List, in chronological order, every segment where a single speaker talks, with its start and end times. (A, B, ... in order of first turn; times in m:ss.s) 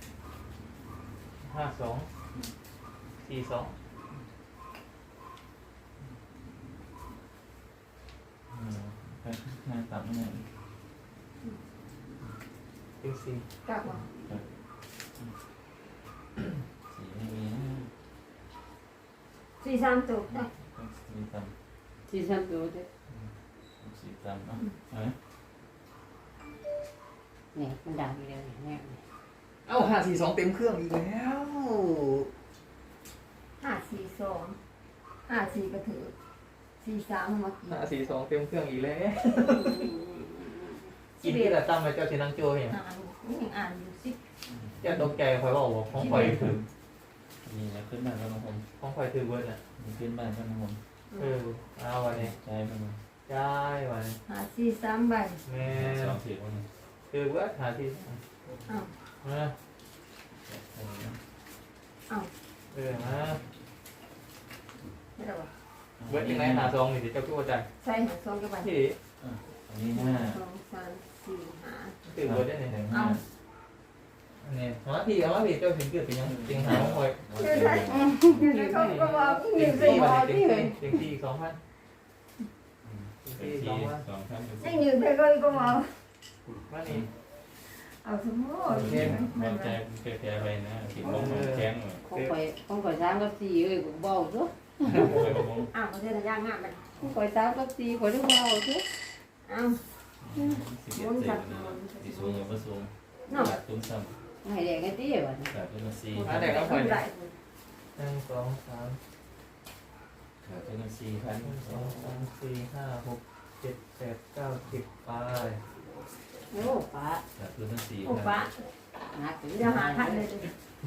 0:01.4-0:02.1 A
0:03.2-0:03.7 A
0:08.5-0:10.4 B
0:13.0-0:13.4 A
0:13.6-0:14.0 C
0:16.9-0:17.9 B
0:19.6-0:20.5 C
0:20.3-0:21.5 B
0:22.1-0:22.9 D
0:23.1-0:25.1 B
0:27.5-0:29.0 D
0:29.6-0:32.3 A
0:33.6-0:34.6 C
0:35.2-0:36.1 C
0:36.8-0:37.8 C
0:37.7-0:39.9 A
0:39.6-0:40.5 D
0:41.2-0:41.6 C
0:41.2-0:42.8 A
0:42.7-0:44.2 C
0:44.5-0:45.1 B
0:44.8-0:46.6 A
0:45.9-0:46.6 B
0:47.4-0:48.6 B
0:48.8-0:49.6 A
0:49.8-0:50.8 B
0:51.1-0:51.4 C
0:51.2-0:52.3 A
0:52.1-0:53.0 B
0:53.3-0:54.2 A
0:54.2-0:55.4 C
0:55.4-0:56.2 A
0:55.6-0:56.7 B
0:57.1-0:58.2 A
0:58.7-0:58.9 C
0:59.2-0:59.5 A
1:00.4-1:01.2 B
1:02.7-1:03.4 A
1:02.9-1:03.4 B
1:05.2-1:05.5 C
1:06.0-1:06.8 B
1:06.1-1:07.7 A
1:07.8-1:08.8 C
1:08.6-1:09.0 A
1:09.2-1:10.4 B
1:09.9-1:12.0 C
1:12.0-1:12.8 A
1:12.2-1:13.2 B
1:12.9-1:13.2 C
1:14.4-1:17.2 A
1:16.2-1:18.5 B
1:17.3-1:20.1 C
1:17.9-1:19.0 D
1:18.7-1:21.6 A
1:19.8-1:20.8 D
1:22.8-1:24.8 B
1:23.2-1:24.0 A
1:24.6-1:26.0 C
1:26.7-1:27.0 A
1:27.8-1:29.8 C
1:28.7-1:29.2 A
1:28.7-1:32.0 B
1:31.0-1:32.3 A
1:32.0-1:35.3 D
1:34.8-1:35.7 B
1:35.7-1:37.0 C
1:37.0-1:38.9 D
1:39.4-1:39.8 C
1:40.2-1:44.2 B
1:40.9-1:42.5 C
1:43.3-1:43.6 C
1:44.4-1:45.5 D
1:45.5-1:46.6 B
1:46.2-1:47.3 C
1:46.2-1:47.0 A
1:48.0-1:49.0 A
1:50.4-1:52.2 B
1:51.4-1:55.6 A
1:56.5-1:57.2 D
1:57.3-1:58.5 B
1:58.0-1:58.6 C
1:59.1-2:00.2 D
1:59.5-2:00.5 C